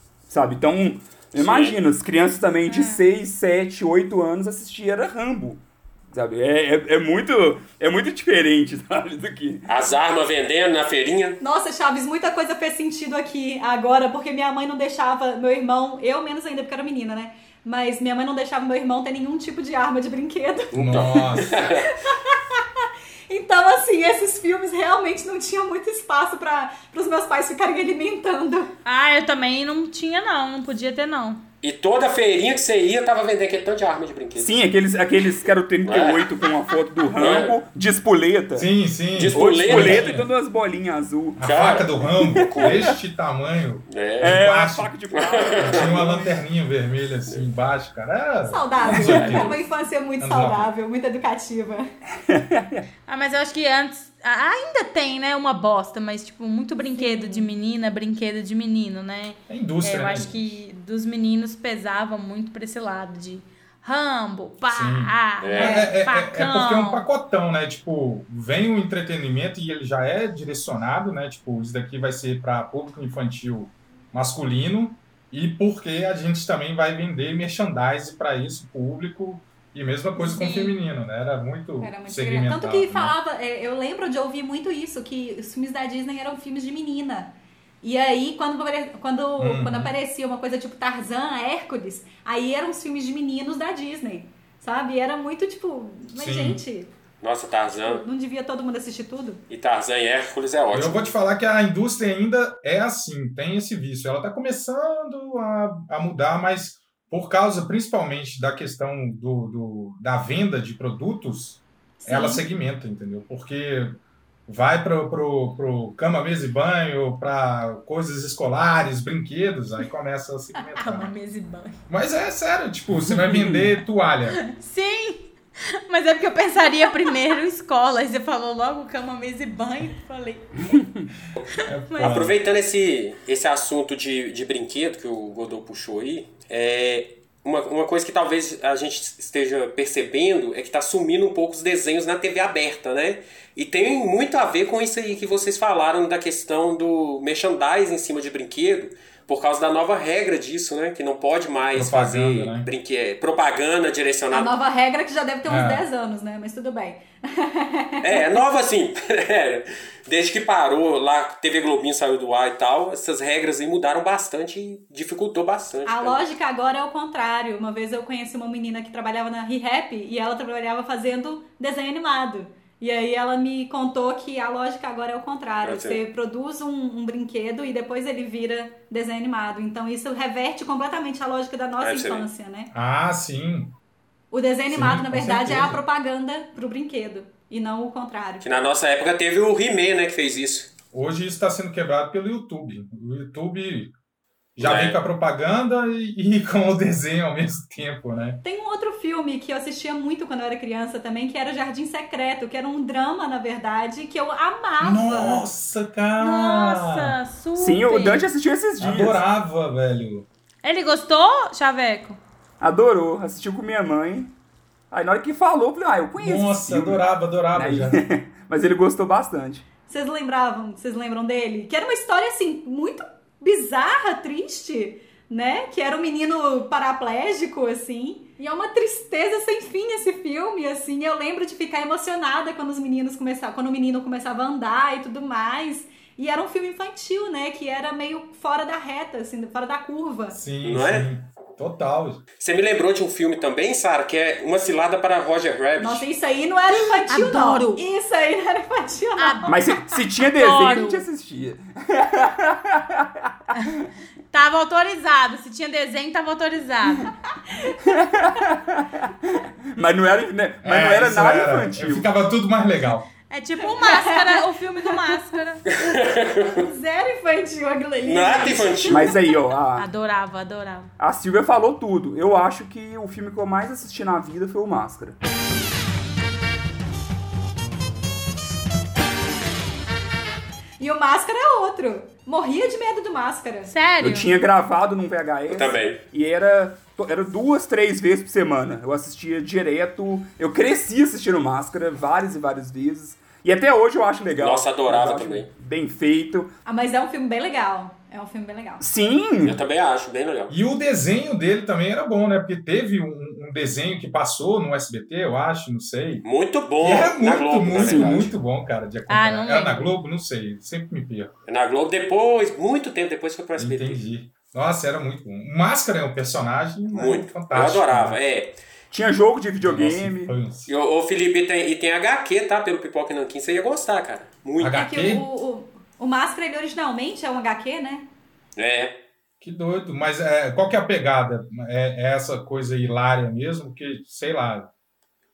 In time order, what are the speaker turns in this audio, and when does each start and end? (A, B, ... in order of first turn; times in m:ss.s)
0:00.3-0:09.6 A
0:01.4-0:01.8 B
0:02.7-0:03.0 C
0:09.7-0:11.4 B
0:11.4-0:21.2 D
0:20.7-0:21.7 E
0:20.7-0:21.8 B
0:22.1-0:28.7 D
0:28.8-0:31.4 C
0:31.6-0:34.6 B
0:34.4-0:38.7 A
0:35.8-0:36.3 B
0:37.2-0:37.5 B
0:38.5-0:40.3 E
0:39.1-0:40.1 B
0:39.3-0:41.4 A
0:41.4-0:44.9 E
0:41.4-0:42.8 B
0:42.2-0:42.9 A
0:43.9-0:44.4 B
0:44.2-0:46.4 A
0:45.1-0:46.0 B
0:45.6-0:49.6 E
0:48.4-0:51.9 D
0:49.0-0:49.5 B
0:50.2-0:50.7 E
0:52.3-0:52.8 A
0:53.1-1:07.0 C
0:56.9-0:57.5 D
0:59.5-1:00.6 E
1:04.7-1:23.2 E
1:05.4-1:05.9 B
1:20.2-1:20.7 C
1:21.8-1:36.9 D
1:29.4-1:30.0 E
1:36.1-1:36.6 E
1:37.2-1:38.0 B
1:37.8-1:39.4 D
1:39.5-1:41.1 B
1:40.7-2:01.1 E
1:52.0-1:52.4 D
2:00.8-2:01.8 C
2:01.9-2:04.4 E
2:03.0-2:03.7 A
2:04.3-2:05.3 C
2:05.9-2:10.7 C
2:11.6-2:12.4 E
2:11.9-2:12.2 C
2:12.0-2:34.5 B
2:31.7-2:32.7 E
2:34.3-2:38.3 D
2:35.5-2:35.8 E
2:38.0-2:46.2 B
2:45.8-3:02.7 D
2:55.6-2:56.0 B
3:01.8-3:02.3 B
3:02.7-3:03.7 E
3:04.3-3:08.4 D
3:04.7-3:05.8 E
3:08.4-3:10.7 B
3:10.9-3:13.9 E
3:14.6-3:18.4 E
3:14.6-3:15.0 B
3:18.4-3:25.4 D
3:24.8-3:27.2 E
3:26.2-3:28.3 C
3:27.6-3:29.2 A
3:28.8-3:30.3 E
3:30.6-3:32.2 C
3:32.6-3:34.3 A
3:34.9-3:37.0 A
3:36.2-3:38.0 E
3:37.5-3:39.6 A
3:39.9-4:00.4 D
4:00.3-4:02.2 E
4:00.6-4:01.1 B
4:02.4-4:06.1 B
4:05.8-4:09.6 D
4:07.0-4:07.8 C
4:09.2-4:09.6 C
4:09.5-4:13.3 A
4:10.3-4:11.0 C
4:14.3-4:17.1 C
4:17.5-4:17.8 D
4:17.9-4:22.1 A
4:20.6-4:23.1 E
4:23.3-4:25.8 C
4:23.8-4:25.0 D
4:25.7-4:26.6 B
4:26.5-4:29.2 D
4:28.0-4:29.1 B
4:28.9-4:29.9 A
4:29.8-4:30.9 C
4:31.0-4:35.2 A
4:40.8-4:43.7 D
4:43.7-4:44.3 C
4:44.0-4:56.5 A
4:45.5-4:46.0 B
4:54.4-4:55.5 B
4:56.6-4:58.8 D
4:58.8-4:59.6 A
4:59.4-5:00.6 B
5:00.5-5:06.2 E
5:06.2-5:08.3 B
5:06.8-5:11.3 E
5:07.8-5:08.3 A
5:09.1-5:09.9 C
5:11.5-5:14.0 B
5:13.6-5:18.2 E
5:16.9-5:18.6 B
5:18.9-5:20.3 A
5:19.6-5:20.7 E
5:20.7-5:24.8 B
5:24.6-5:25.2 E
5:24.7-5:28.1 D
5:28.6-5:29.0 B
5:29.4-5:34.7 E